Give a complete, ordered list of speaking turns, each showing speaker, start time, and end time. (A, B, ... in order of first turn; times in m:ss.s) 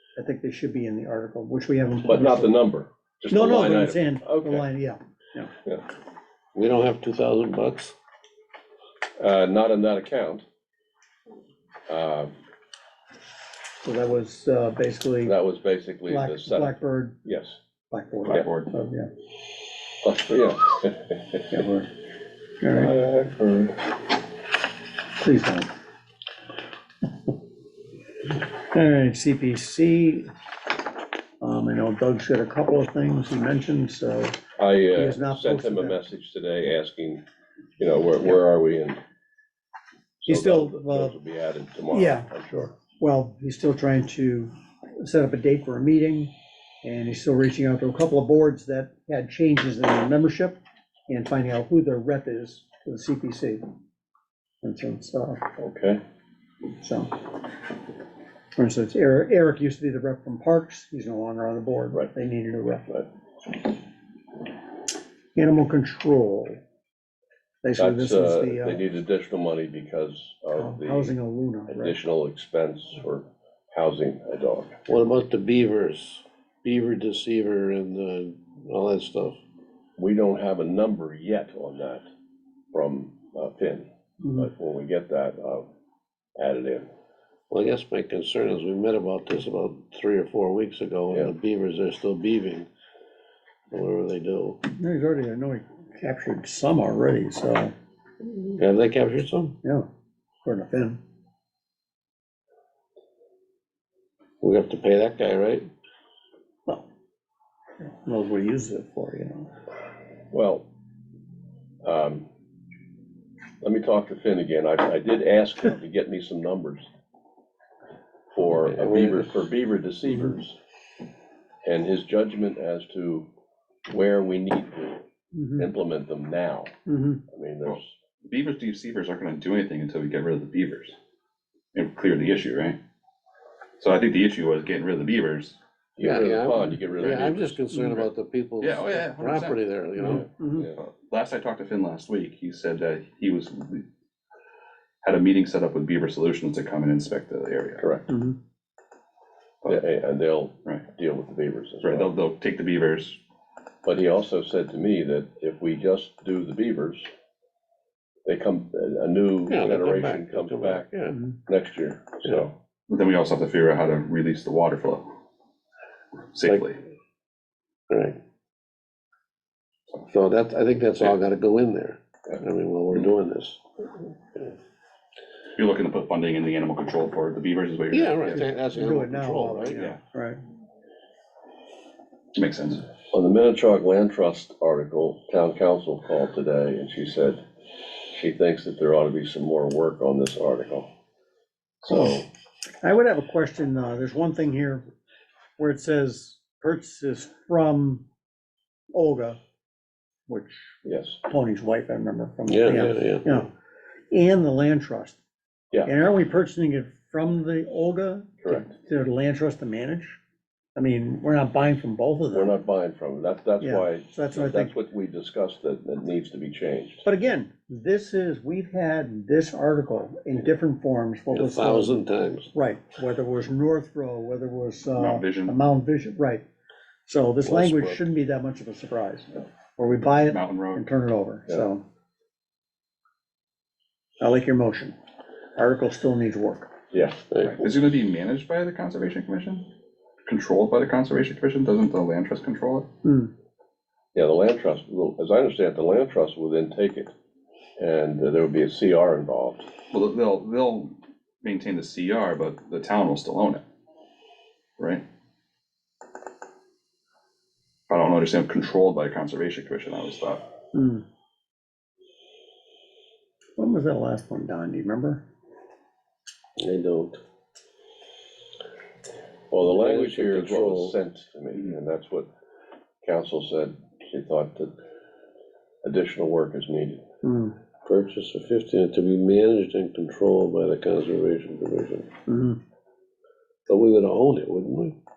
0:00.2-0:02.5 A
0:02.1-0:04.7 B
0:03.3-0:05.5 A
0:06.5-0:07.9 C
0:09.2-0:10.4 B
0:11.9-0:12.3 B
0:13.8-0:15.4 A
0:15.2-0:17.6 B
0:16.1-0:17.2 A
0:17.9-0:19.1 A
0:18.2-0:18.7 D
0:20.0-0:21.6 B
0:21.5-0:21.9 A
0:22.6-0:23.0 A
0:22.7-0:23.9 B
0:25.2-0:25.7 A
0:28.6-0:30.3 A
0:31.4-0:36.0 A
0:34.6-0:37.2 B
0:37.8-0:39.0 B
0:40.2-0:42.5 B
0:40.3-0:41.2 A
0:41.9-0:46.3 A
0:46.8-0:53.6 A
0:54.6-0:55.5 A
0:55.6-0:56.0 B
0:56.8-0:57.2 A
0:58.6-1:03.0 A
1:05.4-1:06.6 A
1:07.6-1:08.8 A
1:07.8-1:11.2 B
1:10.5-1:12.0 A
1:11.7-1:14.8 B
1:14.9-1:19.4 C
1:20.0-1:22.1 B
1:22.7-1:25.7 B
1:26.4-1:26.9 B
1:27.5-1:32.7 C
1:33.7-1:34.6 C
1:34.7-1:37.7 A
1:38.2-1:39.6 C
1:39.6-1:39.9 A
1:40.4-1:41.0 A
1:44.4-1:45.7 C
1:47.8-1:49.5 A
1:50.3-1:50.6 B
1:51.8-1:52.3 B
1:53.6-1:56.9 B
1:58.4-2:00.6 B
1:58.7-1:59.3 C
2:01.6-2:03.3 B
2:03.9-2:05.0 B
2:05.3-2:05.7 A
2:05.6-2:06.7 B
2:06.9-2:07.2 A
2:07.3-2:07.9 B
2:07.7-2:11.0 D
2:11.7-2:12.8 D
2:13.8-2:15.6 D
2:16.0-2:17.6 B
2:16.0-2:20.2 C
2:18.6-2:19.6 D
2:20.0-2:20.7 A
2:20.1-2:20.8 B
2:20.8-2:23.8 D
2:25.0-2:27.8 D
2:27.8-2:28.1 B
2:28.1-2:28.4 A
2:29.7-2:32.1 B
2:31.8-2:33.2 D
2:33.8-2:37.1 B
2:38.2-2:40.9 B
2:39.5-2:41.2 C
2:41.4-2:42.5 B
2:42.9-2:45.1 D
2:46.3-2:46.8 D
2:47.9-2:48.2 C
2:50.1-2:54.6 C
2:55.6-2:58.5 D
2:57.9-2:59.8 C
2:58.3-3:00.4 A
2:59.7-3:00.0 D
3:02.4-3:02.9 D
3:03.1-3:07.4 B
3:08.1-3:10.9 B
3:11.8-3:12.3 B
3:12.8-3:14.8 A
3:15.6-3:18.0 A
3:18.9-3:19.4 A
3:20.3-3:23.5 A
3:20.8-3:21.2 B
3:22.5-3:23.4 C
3:24.1-3:25.2 A
3:25.8-3:30.2 A
3:28.4-3:28.7 B
3:30.8-3:32.6 A
3:32.3-3:37.0 B
3:33.6-3:34.7 A
3:37.0-3:46.4 A
3:41.3-3:42.5 C
3:45.0-3:45.6 D
3:47.1-3:51.8 A
3:47.4-3:48.0 C
3:50.3-3:50.8 D
3:54.2-3:55.0 A
3:55.6-3:56.7 A
3:56.9-3:57.2 B
3:57.3-3:57.6 C
3:57.5-3:59.7 D
4:00.3-4:02.9 D
4:03.0-4:03.3 A
4:04.2-4:07.1 B
4:07.8-4:09.7 B
4:09.9-4:13.6 D
4:17.9-4:20.4 D
4:20.7-4:21.0 A
4:23.6-4:25.2 A
4:26.6-4:27.2 C
4:29.5-4:32.3 B
4:29.6-4:31.0 C
4:33.0-4:34.7 B
4:35.8-4:37.0 B
4:37.2-4:37.6 A
4:37.8-4:42.1 C
4:42.3-4:42.6 A
4:43.7-4:45.0 C